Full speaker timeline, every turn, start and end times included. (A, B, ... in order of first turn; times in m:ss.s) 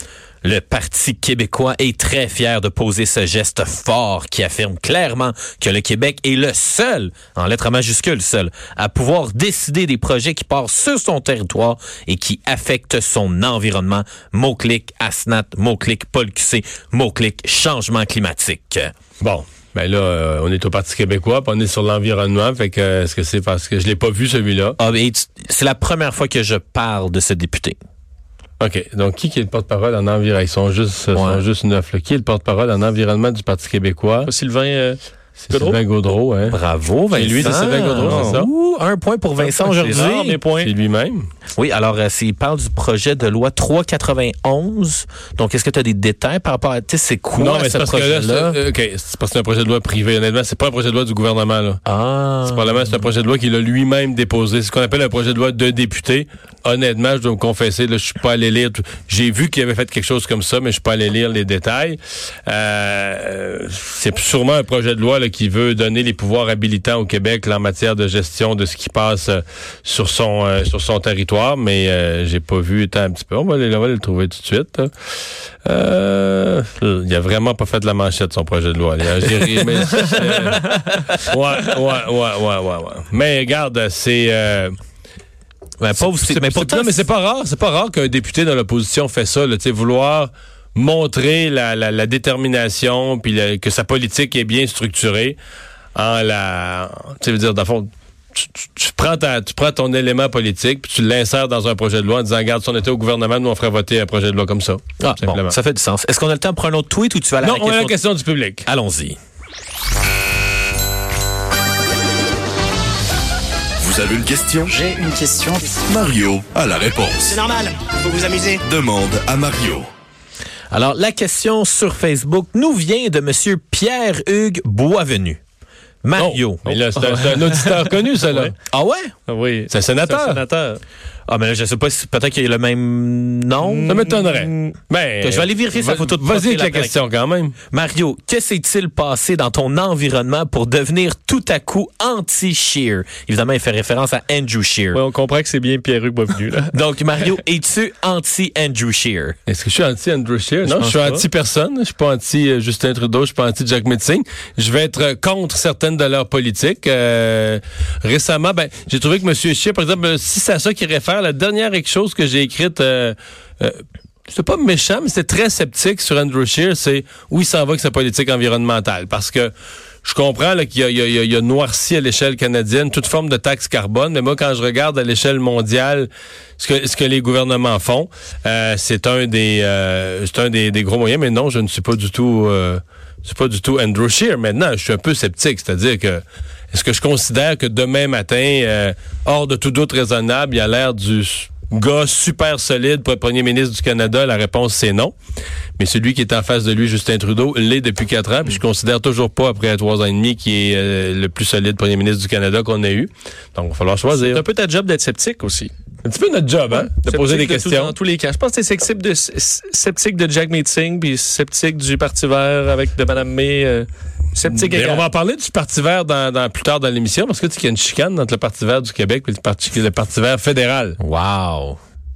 0:00.4-0:18.9 A
0:19.2-0:24.8 B
0:24.8-0:27.8 A
0:28.6-0:34.3 B
0:31.1-0:31.4 A
0:34.2-0:35.0 C
0:35.4-0:36.6 B
0:35.5-0:35.8 C
0:36.5-0:40.4 A
0:37.1-0:38.5 B
0:37.4-0:38.4 C
0:39.4-0:40.7 C
0:40.0-0:41.2 B
0:41.6-0:48.6 A
0:47.4-0:51.8 B
0:51.8-0:52.9 A
0:52.4-1:14.9 B
1:15.6-1:24.7 B
1:25.8-1:27.0 A
1:26.0-1:35.4 B
1:35.9-1:45.6 B
1:45.0-1:48.0 A
1:47.4-1:48.6 B
1:48.6-1:49.2 A
1:53.8-1:54.8 D
1:54.8-1:55.8 E
1:55.8-1:57.5 D
1:57.3-1:58.6 E
1:58.6-1:59.9 D
2:00.7-2:05.4 A
2:06.0-2:06.8 A
2:06.2-2:08.5 B
2:07.0-2:08.5 C
2:08.7-2:09.1 A
2:09.3-2:10.8 C
2:09.7-2:10.4 B
2:11.3-2:14.0 A
2:13.7-2:14.7 C
2:13.9-2:17.6 B
2:15.2-2:17.0 A
2:17.7-2:25.0 A
2:24.9-2:26.7 C
2:26.7-2:29.3 A
2:29.5-2:49.5 B
2:30.6-2:31.2 C
2:50.0-3:15.1 B
3:15.8-3:24.4 B
3:24.1-3:25.7 C
3:26.0-3:28.0 B
3:26.8-3:35.0 C
3:34.4-3:41.0 B
3:41.0-3:41.8 A